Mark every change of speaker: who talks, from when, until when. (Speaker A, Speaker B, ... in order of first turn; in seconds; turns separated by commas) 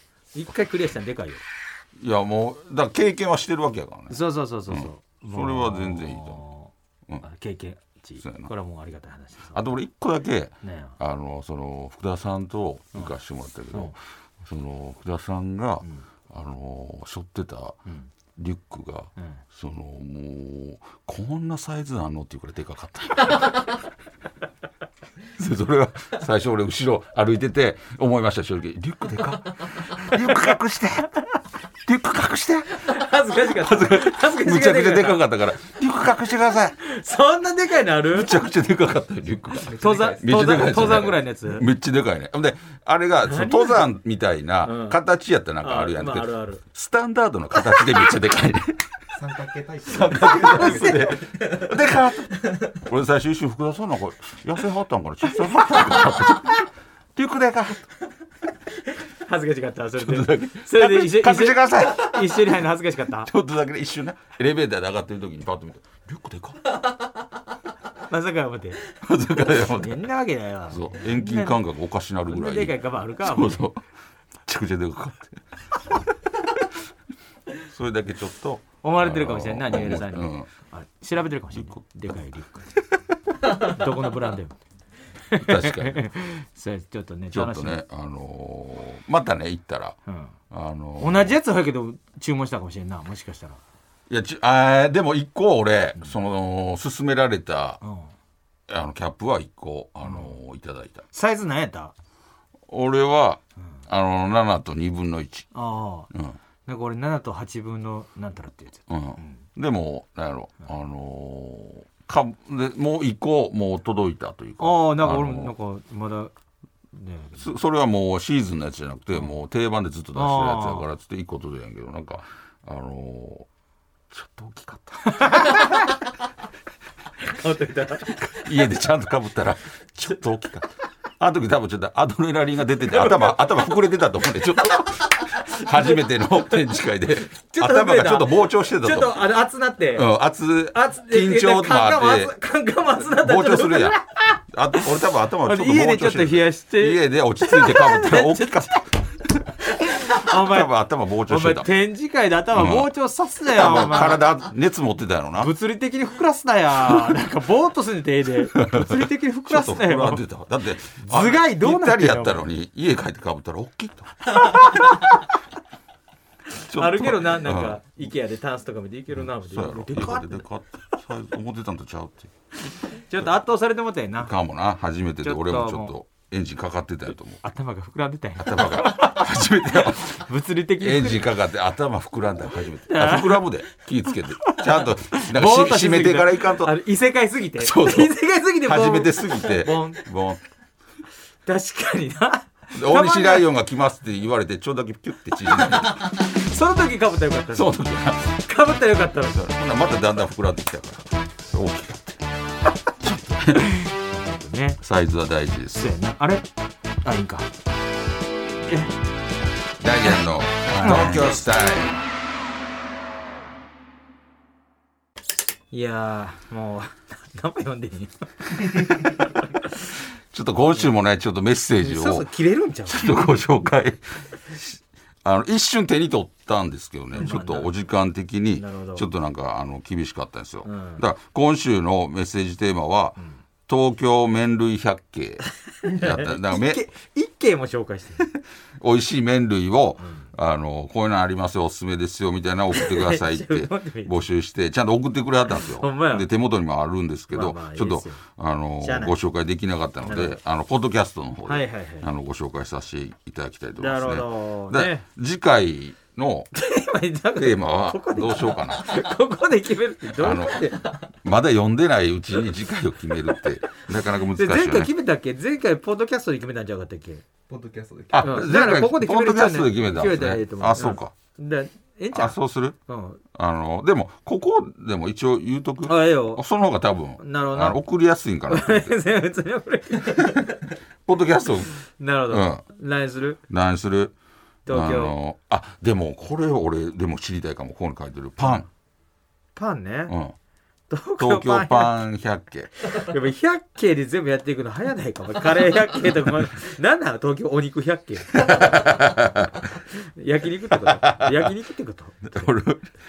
Speaker A: 0.3-1.4, Speaker B: 2.0-6.4, Speaker A: 4.1-9.6, Speaker B: 8.2-8.5, Speaker B: 9.5-17.8, Speaker A: 10.6-11.0, Speaker B: 18.4-23.8, Speaker A: 19.2-19.4, Speaker B: 25.3-31.2, Speaker B: 31.9-36.8, Speaker A: 32.8-35.2, Speaker A: 36.8-38.4, Speaker B: 38.1-48.9, Speaker C: 39.6-40.5, Speaker A: 39.8-41.7, Speaker A: 43.3-43.9, Speaker A: 44.6-45.0, Speaker A: 45.6-46.6, Speaker C: 49.1-51.7, Speaker A: 49.9-51.5, Speaker B: 49.9-57.8, Speaker A: 59.0-63.3, Speaker B: 60.0-62.6, Speaker B: 63.2-66.7, Speaker A: 68.0-68.8, Speaker B: 68.9-70.0, Speaker A: 69.5-71.6, Speaker B: 70.7-73.9, Speaker A: 72.3-73.7, Speaker B: 74.4-76.0, Speaker B: 77.6-80.5, Speaker A: 78.8-82.7, Speaker B: 81.5-82.3, Speaker A: 83.4-84.6, Speaker A: 85.2-87.8, Speaker B: 85.4-86.1, Speaker B: 87.3-90.0, Speaker A: 90.1-90.3, Speaker B: 90.5-91.3, Speaker A: 91.0-93.6, Speaker B: 94.1-97.8, Speaker A: 97.8-98.1, Speaker B: 98.7-101.0, Speaker A: 100.0-100.3, Speaker A: 101.1-101.9, Speaker B: 102.7-105.5, Speaker A: 105.5-106.1, Speaker B: 106.1-106.4, Speaker A: 106.7-109.4, Speaker B: 108.9-115.5, Speaker A: 114.6-116.3, Speaker A: 116.9-117.5, Speaker B: 117.4-123.5, Speaker A: 120.2-120.9, Speaker B: 124.1-125.6, Speaker A: 125.0-126.0, Speaker A: 127.2-128.5, Speaker B: 128.1-139.2, Speaker A: 135.4-136.7, Speaker A: 137.4-140.1, Speaker B: 139.9-142.3, Speaker A: 140.7-144.4, Speaker B: 143.1-144.0, Speaker B: 144.5-149.0, Speaker A: 145.4-148.8, Speaker A: 149.7-150.7, Speaker B: 150.0-151.7, Speaker A: 151.3-154.3, Speaker B: 152.5-152.9, Speaker B: 153.4-155.5, Speaker A: 155.4-160.2, Speaker B: 158.5-164.6, Speaker A: 161.0-162.4, Speaker A: 164.3-165.2, Speaker A: 166.6-170.5, Speaker B: 166.6-167.8, Speaker B: 169.3-172.3, Speaker A: 172.8-174.3, Speaker B: 174.2-177.4, Speaker A: 175.2-175.9, Speaker A: 177.4-181.3, Speaker B: 178.4-180.2, Speaker B: 180.8-186.8, Speaker A: 182.8-183.5, Speaker A: 184.4-190.1, Speaker B: 187.6-190.4, Speaker A: 191.5-193.5, Speaker B: 192.7-196.1, Speaker A: 195.9-199.4, Speaker B: 197.5-198.3, Speaker B: 199.2-202.2, Speaker B: 203.0-203.7, Speaker A: 203.5-204.8, Speaker B: 204.8-205.9, Speaker A: 205.8-206.5, Speaker A: 207.0-207.5, Speaker A: 208.7-208.9, Speaker B: 209.8-212.0, Speaker A: 210.8-211.3, Speaker A: 215.7-219.9, Speaker B: 220.3-222.3, Speaker A: 221.8-223.3, Speaker B: 222.9-236.8, Speaker A: 227.1-227.7, Speaker A: 228.6-229.1, Speaker A: 230.6-231.0, Speaker A: 235.8-238.3, Speaker B: 238.8-256.5, Speaker A: 240.0-240.3, Speaker A: 242.7-244.1, Speaker A: 245.6-246.3, Speaker A: 247.3-248.2, Speaker A: 248.8-249.2, Speaker A: 250.0-250.4, Speaker A: 251.4-252.1, Speaker A: 253.8-255.1, Speaker A: 256.5-260.8, Speaker B: 257.4-259.0, Speaker B: 260.1-264.9, Speaker A: 264.4-267.2, Speaker C: 267.5-268.4, Speaker B: 268.1-271.1, Speaker A: 268.2-273.2, Speaker B: 272.1-272.8, Speaker B: 273.3-278.9, Speaker A: 275.9-276.4, Speaker A: 277.2-277.8, Speaker A: 278.5-280.5, Speaker B: 281.1-281.8, Speaker A: 281.9-283.4, Speaker B: 282.3-282.6, Speaker B: 283.5-284.1, Speaker A: 284.7-285.1, Speaker B: 284.7-288.7, Speaker A: 289.6-290.1, Speaker B: 290.1-290.4, Speaker A: 290.9-292.0, Speaker B: 291.2-292.7, Speaker A: 292.9-299.1, Speaker B: 298.4-299.7, Speaker A: 299.7-302.5, Speaker B: 300.9-301.5, Speaker B: 302.3-302.9